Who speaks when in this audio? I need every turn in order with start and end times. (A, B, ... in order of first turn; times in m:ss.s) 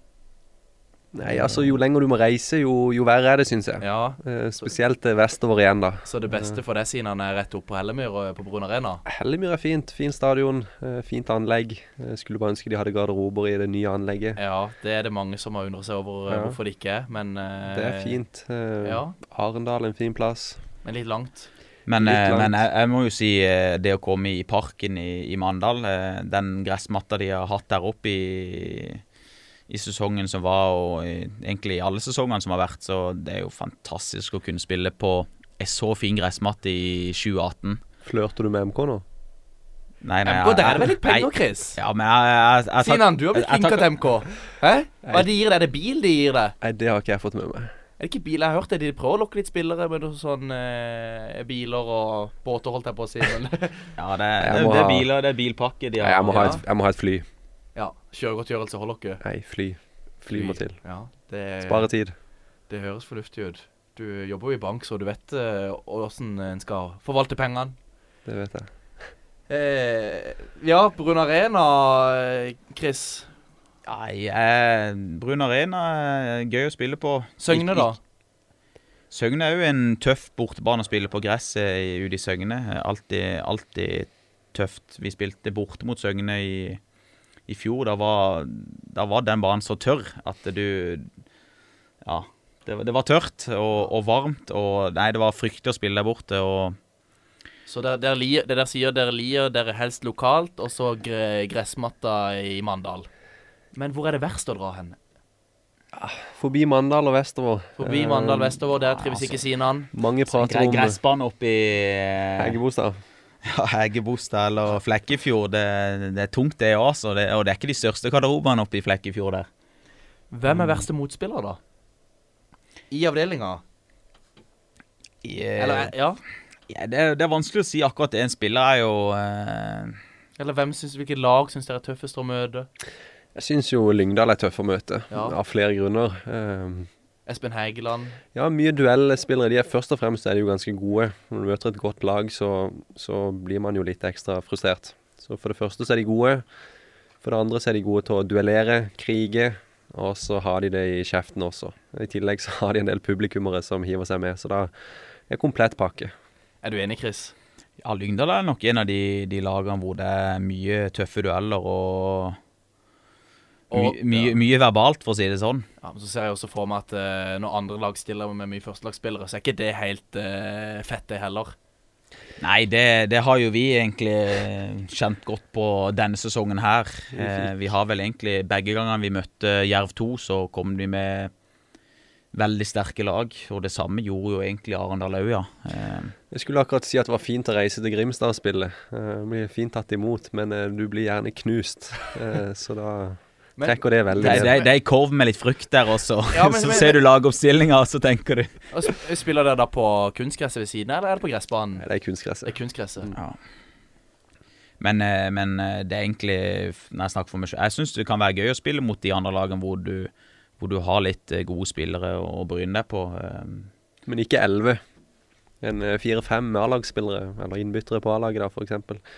0:01.1-0:06.6 A
0:03.8-0:04.2 B
0:06.0-0:09.0 B
0:09.0-0:14.4 A
0:14.4-0:18.2 B
0:16.3-0:16.6 A
0:17.7-0:20.6 A
0:18.8-0:19.1 B
0:20.8-0:21.5 B
0:21.9-0:29.0 C
0:22.0-0:22.6 A
0:29.7-0:37.8 C
0:38.0-0:39.0 A
0:40.0-0:43.9 C
0:40.2-0:41.8 B
0:42.8-0:46.5 B
0:46.6-0:47.7 A
0:48.0-0:53.9 B
0:54.0-0:56.6 C
0:54.4-0:55.1 A
0:56.0-0:57.2 A
0:56.4-0:56.6 B
0:57.8-0:59.2 B
0:59.2-1:00.8 A
1:00.3-1:01.9 B
1:01.6-1:02.1 A
1:02.7-1:07.8 B
1:08.2-1:09.1 A
1:09.5-1:13.3 B
1:13.8-1:18.0 C
1:17.4-1:18.0 B
1:19.1-1:26.8 C
1:27.5-1:31.1 C
1:32.0-1:36.8 C
1:37.7-1:43.1 B
1:43.7-1:45.0 B
1:45.9-1:48.6 A
1:47.8-1:49.9 B
1:49.0-1:49.4 C
1:49.9-1:51.0 A
1:50.3-1:52.6 C
1:52.4-1:53.0 A
1:53.4-1:59.5 C
2:00.3-2:01.6 B
2:00.5-2:00.8 C
2:02.9-2:03.6 B
2:05.2-2:05.9 C
2:05.6-2:06.2 B
2:06.7-2:10.0 C
2:10.4-2:12.7 B
2:13.3-2:16.9 A
2:15.1-2:15.4 B
2:17.2-2:18.2 B
2:18.3-2:26.4 A
2:27.2-2:34.7 A
2:35.3-2:36.1 A
2:36.6-2:37.3 B
2:37.8-2:42.4 C
2:43.7-2:44.4 B
2:43.7-2:45.6 C
2:45.8-2:51.5 B
2:52.4-3:01.3 C
2:57.1-2:57.7 A
3:02.3-3:06.1 C
3:06.3-3:14.6 A
3:13.6-3:14.6 B
3:14.2-3:18.6 C
3:16.3-3:17.0 B
3:18.7-3:21.8 B
3:21.8-3:23.2 A
3:22.4-3:23.1 B
3:24.8-3:33.7 C
3:34.0-3:34.8 A
3:35.6-3:39.0 A